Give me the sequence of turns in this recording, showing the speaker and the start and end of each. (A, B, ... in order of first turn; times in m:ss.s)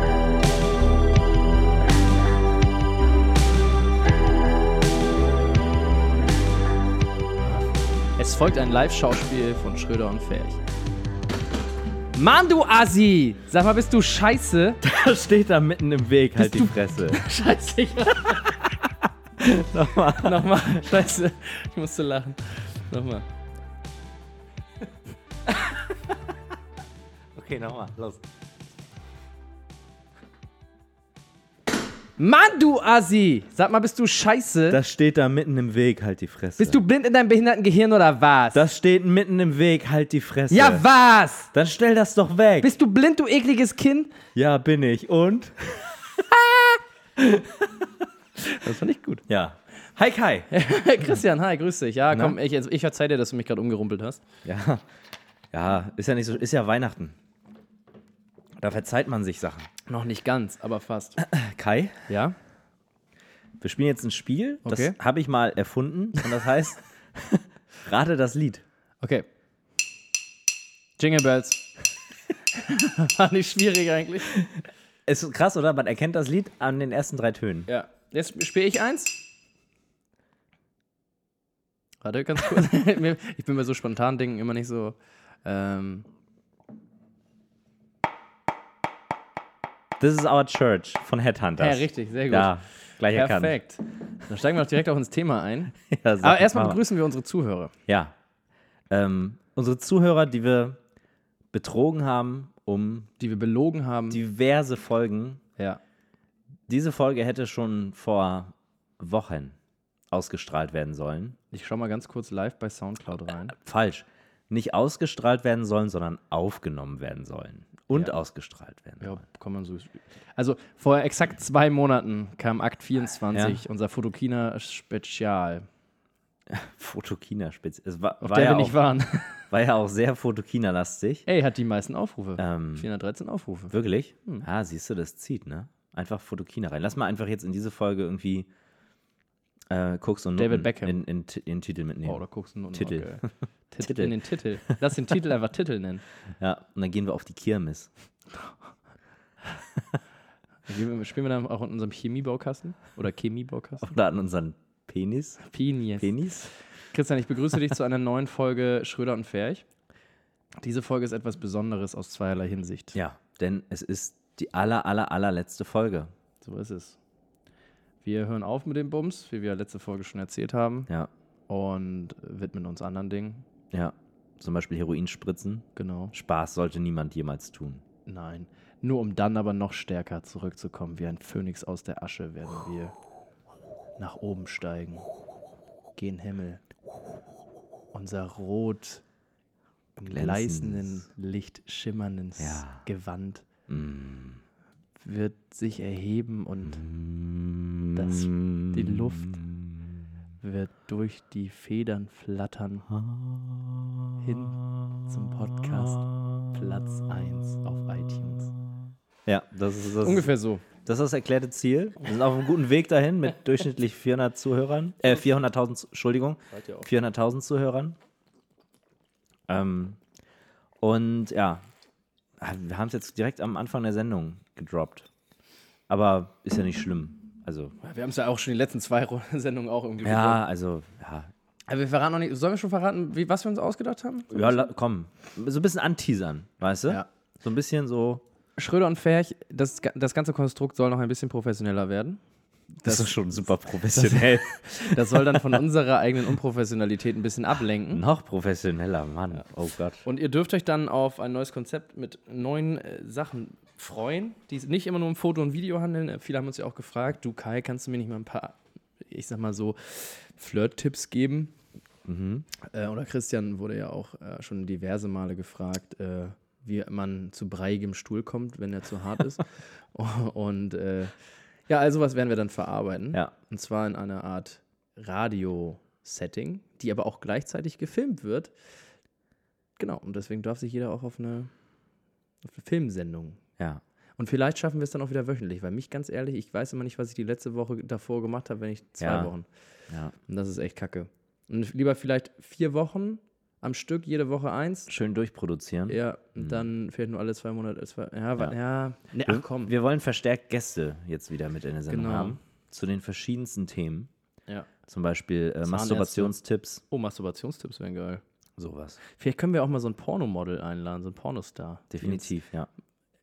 0:07.4-0:10.6 A
0:12.1-0:14.8 A
0:14.8-0:17.2 B
0:16.4-0:18.7 A
0:19.4-0:20.7 B
0:20.1-0:23.3 A
0:25.5-0:25.8 A
0:27.4-0:28.2 B
0:32.2-0:34.8 A
0:34.7-0:36.8 B
0:36.6-0:38.7 A
0:38.5-0:40.8 B
0:40.5-0:41.5 A
0:41.5-0:42.7 B
0:42.6-0:44.2 A
0:44.4-0:46.4 B
0:47.2-0:47.7 B
0:48.5-0:49.2 A
0:49.3-0:50.5 B
0:50.5-0:54.2 A
0:52.1-0:52.4 B
0:54.4-0:54.8 B
0:55.5-0:57.2 B
0:58.6-0:59.7 B
0:59.9-1:01.2 A
1:01.2-1:02.1 B
1:02.1-1:02.4 A
1:03.6-1:08.6 B
1:04.6-1:05.0 A
1:09.0-1:09.3 A
1:11.0-1:11.6 A
1:12.5-1:14.3 A
1:15.1-1:17.7 B
1:17.7-1:19.2 A
1:22.0-1:26.1 A
1:30.0-1:33.6 B
1:31.6-1:32.5 A
1:33.1-1:37.7 A
1:35.9-1:36.8 B
1:37.9-1:38.1 B
1:38.9-1:40.8 B
1:41.5-1:43.1 B
1:43.2-1:44.2 A
1:44.1-1:45.4 B
1:46.7-1:49.6 B
1:50.1-1:51.4 B
1:51.5-1:53.6 A
1:53.6-1:59.2 B
1:59.0-2:05.7 A
2:03.3-2:03.6 B
2:06.5-2:08.8 B
2:08.2-2:09.4 A
2:09.5-2:11.2 B
2:11.3-2:13.7 A
2:12.4-2:12.9 B
2:13.7-2:18.5 B
2:19.7-2:22.2 B
2:20.4-2:21.0 A
2:22.0-2:26.0 A
2:22.7-2:23.3 B
2:23.8-2:24.7 B
2:26.4-2:27.9 B
2:30.7-2:33.9 A
2:33.8-2:35.5 B
2:35.4-2:39.6 A
2:36.0-2:36.5 B
2:40.6-2:43.0 A
2:42.9-2:46.1 B
2:46.4-2:47.0 A
2:48.0-2:50.9 A
2:51.5-2:53.5 A
2:53.7-2:57.8 B
2:55.8-2:56.1 A
2:58.1-3:03.0 A
3:04.0-3:05.1 A
3:06.0-3:06.6 A
3:07.9-3:09.0 A
3:10.0-3:13.5 A
3:10.0-3:11.0 B
3:12.4-3:12.8 B
3:13.7-3:14.4 B
3:15.0-3:16.8 A
3:16.7-3:19.9 B
3:18.0-3:19.4 A
3:20.4-3:22.9 A
3:22.9-3:26.5 B
3:24.2-3:28.5 A
3:29.3-3:30.3 B
3:30.0-3:30.7 A
3:30.8-3:38.0 B
3:36.5-3:36.9 A
3:39.5-3:40.0 B
3:40.8-3:41.7 B
3:42.4-3:45.1 B
3:45.9-3:47.8 B
3:47.8-3:50.4 A
3:50.0-3:51.3 B
3:51.7-3:54.7 A
3:54.3-3:58.2 B
3:58.6-4:02.2 A
4:02.8-4:03.2 A
4:02.8-4:05.4 B
4:03.9-4:08.0 A
4:07.9-4:10.0 B
4:10.0-4:21.5 A
4:22.1-4:22.5 B
4:22.6-4:31.2 A
4:31.7-4:38.5 A
4:39.8-4:41.5 A
4:42.4-4:43.4 A
4:44.2-4:49.5 A
4:49.0-4:49.3 B
4:50.3-4:54.9 A
4:54.9-4:56.7 B
4:55.9-4:59.7 A
4:59.2-5:04.1 B
5:01.9-5:02.4 A
5:04.9-5:06.8 B
5:05.6-5:06.4 A
5:06.9-5:08.2 A
5:08.6-5:09.0 B
5:09.2-5:12.3 A
5:11.9-5:12.7 B